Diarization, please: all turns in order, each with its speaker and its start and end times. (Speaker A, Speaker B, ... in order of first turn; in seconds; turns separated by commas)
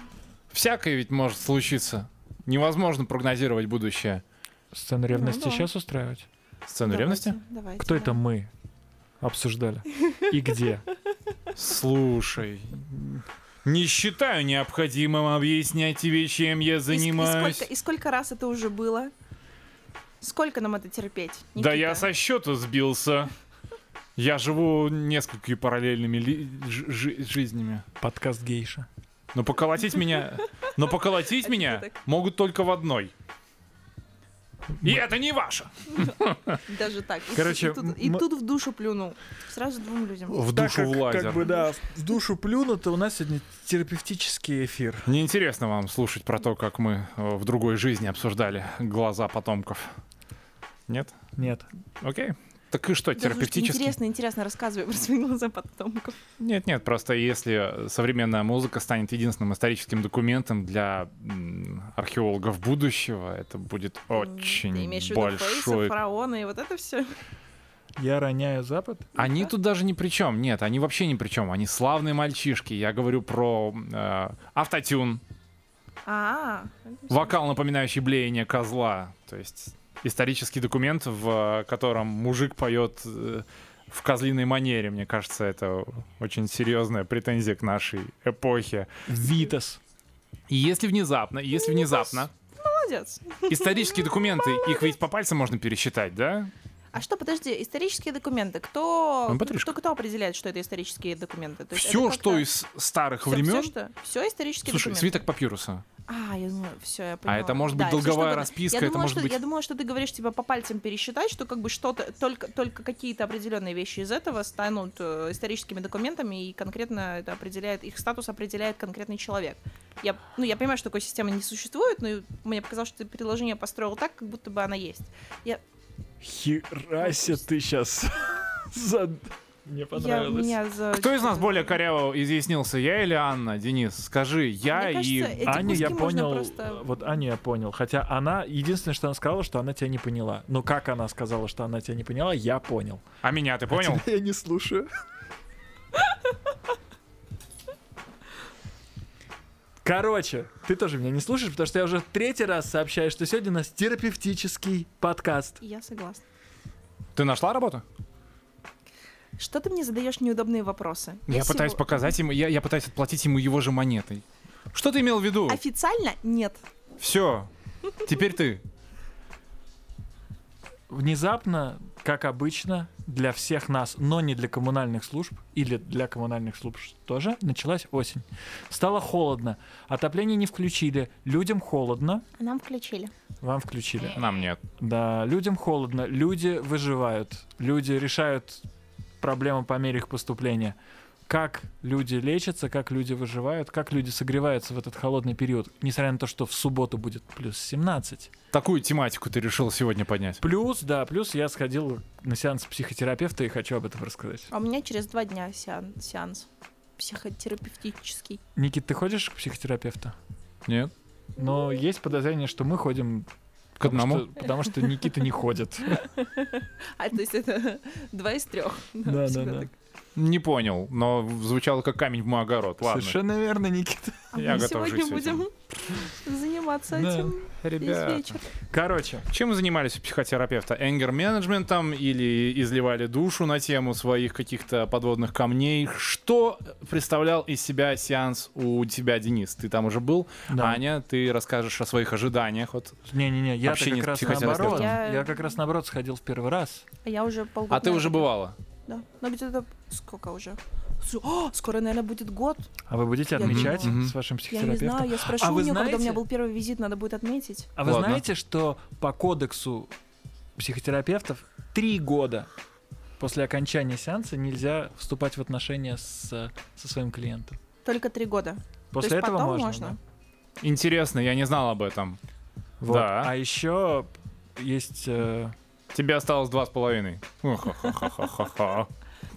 Speaker A: 0.5-4.2, Speaker B: 4.7-6.2, Speaker C: 5.1-5.7, Speaker A: 6.7-7.4, Speaker C: 6.8-8.2, Speaker B: 7.8-8.5, Speaker B: 9.2-10.8, Speaker A: 11.5-17.7, Speaker C: 16.9-19.1, Speaker C: 20.2-22.1, Speaker A: 21.6-23.3, Speaker A: 24.1-27.9, Speaker B: 28.0-28.9, Speaker A: 29.3-33.1, Speaker C: 31.2-32.0, Speaker A: 34.8-36.6, Speaker C: 35.9-40.4, Speaker B: 37.3-38.2, Speaker A: 40.3-41.5, Speaker B: 40.5-45.1, Speaker A: 45.0-49.9, Speaker A: 50.9-51.1, Speaker B: 51.4-51.7, Speaker A: 52.0-54.0, Speaker C: 53.2-56.2, Speaker A: 56.4-66.0, Speaker C: 64.1-67.1, Speaker B: 68.0-69.1, Speaker C: 69.2-69.5, Speaker A: 69.2-75.2, Speaker C: 76.0-77.3, Speaker A: 77.1-89.2, Speaker B: 89.1-89.8, Speaker A: 90.5-92.3, Speaker C: 91.5-94.9, Speaker A: 93.5-96.5, Speaker C: 96.9-102.5, Speaker A: 99.3-99.7, Speaker A: 101.7-103.7, Speaker C: 103.2-105.2, Speaker A: 104.7-105.8, Speaker C: 106.1-125.6, Speaker A: 107.2-109.4, Speaker B: 126.2-130.6, Speaker C: 127.0-127.4, Speaker C: 129.9-131.8, Speaker A: 130.9-135.9, Speaker C: 134.7-137.0, Speaker B: 135.4-143.0, Speaker A: 143.2-144.0, Speaker B: 143.7-144.9, Speaker B: 149.8-155.6, Speaker C: 155.6-156.2, Speaker A: 157.2-157.8, Speaker C: 159.4-162.1, Speaker A: 161.3-165.6, Speaker C: 165.5-166.6, Speaker A: 167.0-167.5, Speaker A: 168.0-168.6, Speaker B: 170.9-182.2, Speaker C: 182.4-183.1, Speaker B: 183.4-184.2, Speaker A: 184.1-184.6, Speaker B: 184.8-188.6, Speaker B: 189.2-190.7, Speaker B: 191.3-198.3, Speaker A: 198.5-200.4, Speaker B: 200.4-204.5, Speaker C: 204.5-206.5, Speaker C: 207.0-208.4, Speaker B: 208.5-210.1, Speaker A: 210.7-210.9, Speaker B: 211.4-213.3, Speaker C: 211.4-211.7, Speaker A: 213.8-214.3, Speaker B: 213.8-216.1, Speaker C: 215.9-219.7, Speaker B: 219.1-219.7, Speaker A: 220.2-223.2, Speaker B: 222.8-224.5, Speaker A: 224.3-225.4, Speaker C: 224.3-228.5, Speaker B: 226.9-227.3, Speaker A: 227.6-228.4, Speaker B: 228.7-229.3, Speaker A: 229.3-243.0, Speaker B: 240.5-240.8, Speaker B: 243.1-246.8, Speaker A: 243.6-245.0, Speaker C: 244.2-245.6, Speaker C: 247.0-248.3, Speaker A: 247.7-248.6, Speaker C: 248.9-252.7, Speaker B: 252.9-256.2, Speaker C: 253.3-257.7, Speaker A: 253.4-254.1, Speaker B: 257.8-259.9, Speaker A: 257.8-258.2, Speaker B: 260.6-262.5, Speaker B: 263.2-267.6, Speaker C: 267.8-270.0, Speaker B: 268.9-270.0, Speaker A: 270.6-272.2, Speaker B: 272.8-275.5, Speaker A: 272.9-273.3, Speaker A: 275.9-278.9